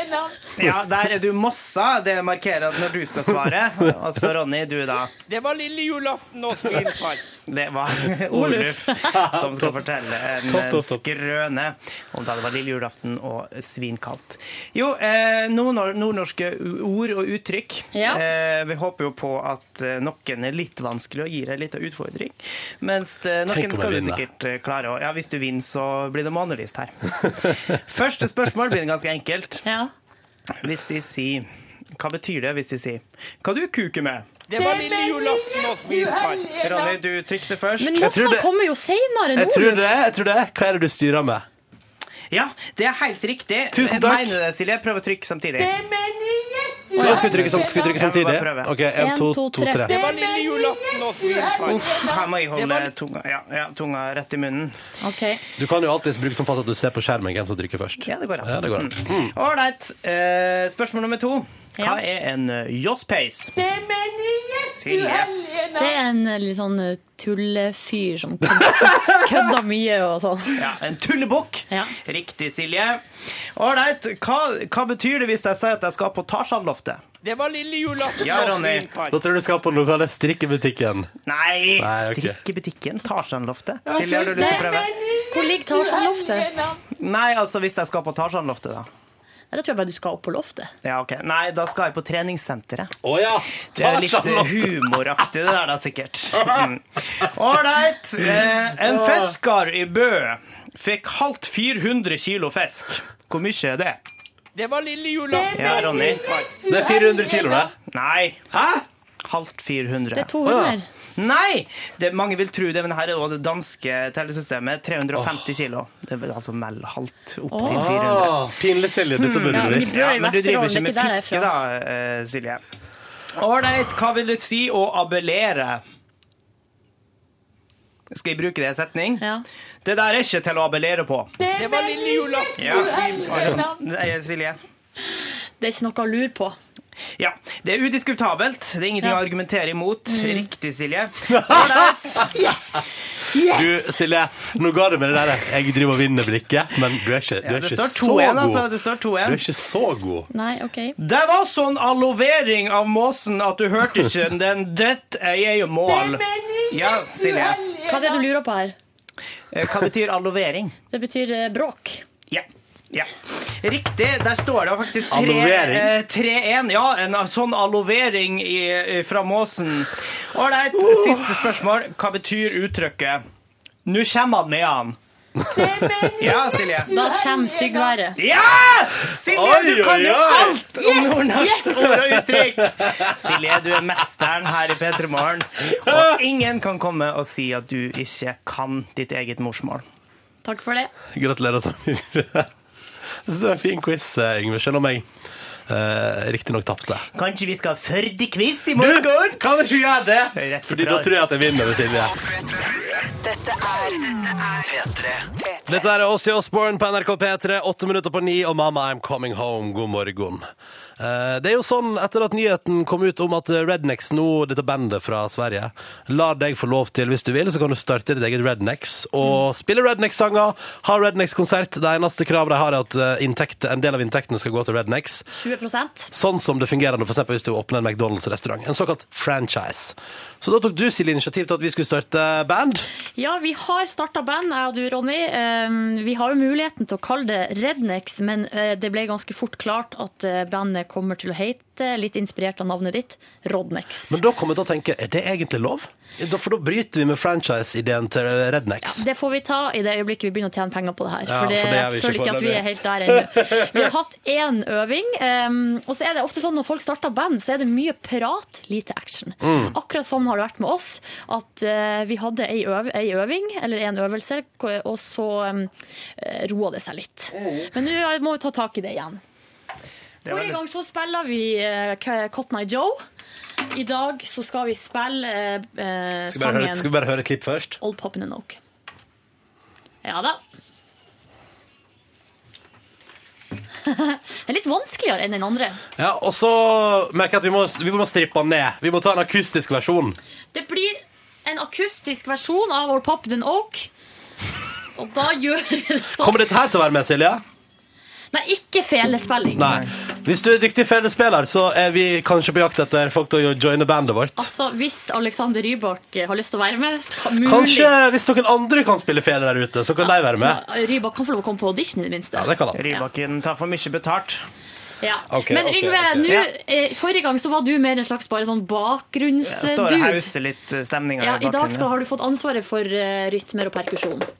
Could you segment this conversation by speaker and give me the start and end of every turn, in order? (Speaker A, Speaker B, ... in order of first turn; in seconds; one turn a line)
Speaker A: 0.6-5.1
Speaker B: 5.3-7.3
Speaker A: 7.5-29.6
Speaker C: 8.3-9.1
Speaker D: 9.1-11.0
Speaker C: 17.9-18.2
Speaker D: 23.5-24.2
Speaker C: 29.6-29.9
Speaker A: 30.6-34.3
Speaker B: 34.5-36.6
Speaker A: 36.6-38.0
Speaker C: 37.8-39.9
Speaker D: 37.9-38.5
Speaker D: 39.4-41.5
Speaker A: 42.3-45.7
Speaker D: 43.7-44.4
Speaker C: 47.0-47.3
Speaker A: 47.0-48.7
Speaker D: 47.0-49.9
Speaker C: 49.0-49.9
Speaker B: 49.9-52.9
Speaker A: 51.8-54.8
Speaker C: 55.0-55.4
Speaker D: 55.6-59.3
Speaker A: 58.0-63.5
Speaker A: 64.8-65.3
Speaker C: 65.8-70.6
Speaker D: 68.8-69.1
Speaker A: 70.5-77.0
Speaker B: 77.2-79.2
Speaker A: 78.2-78.9
Speaker D: 79.1-81.1
Speaker A: 81.2-84.9
Speaker D: 81.8-82.4
Speaker C: 83.9-86.6
Speaker A: 87.0-88.9
Speaker C: 89.5-90.7
Speaker A: 90.8-93.0
Speaker D: 93.0-94.9
Speaker A: 93.7-104.0
Speaker D: 98.8-99.3
Speaker B: 104.5-106.6
Speaker A: 105.5-106.3
Speaker D: 106.7-107.7
Speaker A: 107.9-108.5
Speaker D: 108.5-108.8
Speaker A: 109.2-110.3
Speaker C: 110.1-110.9
Speaker D: 110.4-110.8
Speaker A: 111.2-118.5
Speaker D: 115.1-115.4
Speaker C: 117.5-117.8
Speaker D: 117.6-120.1
Speaker A: 119.2-122.6
Speaker C: 119.5-121.5
Speaker A: 123.3-125.8
Speaker A: 128.1-129.2
Speaker A: 129.8-131.3
Speaker B: 131.5-133.6
Speaker A: 132.6-134.6
Speaker C: 135.6-136.6
Speaker A: 137.2-141.4
Speaker C: 140.1-140.4
Speaker D: 141.3-142.3
Speaker C: 141.4-143.8
Speaker D: 143.4-148.7
Speaker A: 147.4-149.4
Speaker D: 149.2-150.3
Speaker C: 150.3-151.0
Speaker A: 151.0-157.6
Speaker C: 157.8-158.8
Speaker A: 159.5-160.8
Speaker C: 160.9-162.0
Speaker A: 162.3-173.2
Speaker D: 165.1-165.9
Speaker D: 170.7-171.4
Speaker A: 173.8-175.0
Speaker D: 175.4-176.1
Speaker A: 176.2-176.9
Speaker C: 176.8-178.2
Speaker A: 178.2-189.8
Speaker D: 179.3-180.6
Speaker C: 180.7-181.9
Speaker D: 181.9-183.3
Speaker D: 185.8-186.2
Speaker C: 190.4-190.9
Speaker D: 191.1-192.5
Speaker D: 193.2-195.1
Speaker D: 195.7-197.1
Speaker A: 197.1-199.4
Speaker D: 198.8-202.1
Speaker A: 200.3-201.2
Speaker E: 203.2-205.7
Speaker D: 205.7-210.4
Speaker D: 211.0-225.3
Speaker C: 225.3-226.1
Speaker D: 226.1-232.8
Speaker C: 233.2-244.2
Speaker D: 244.1-249.0
Speaker C: 248.8-269.2
Speaker D: 251.3-253.9
Speaker D: 259.4-259.7
Speaker D: 267.4-267.7
Speaker A: 270.2-270.6
Speaker C: 270.2-273.0
Speaker C: 273.7-276.9
Speaker D: 276.3-277.8
Speaker C: 277.8-278.6
Speaker C: 280.0-280.4
Speaker C: 283.8-285.8
Speaker D: 286.0-290.2
Speaker C: 290.5-293.9
Speaker C: 294.9-296.5
Speaker D: 296.2-297.4
Speaker C: 298.3-299.8
Speaker D: 299.6-304.5
Speaker C: 304.4-307.9
Speaker D: 307.4-310.6
Speaker C: 310.0-313.0
Speaker D: 312.4-312.8
Speaker A: 312.7-314.4
Speaker C: 315.0-320.3
Speaker D: 315.3-316.4
Speaker A: 319.4-321.9
Speaker C: 321.2-324.3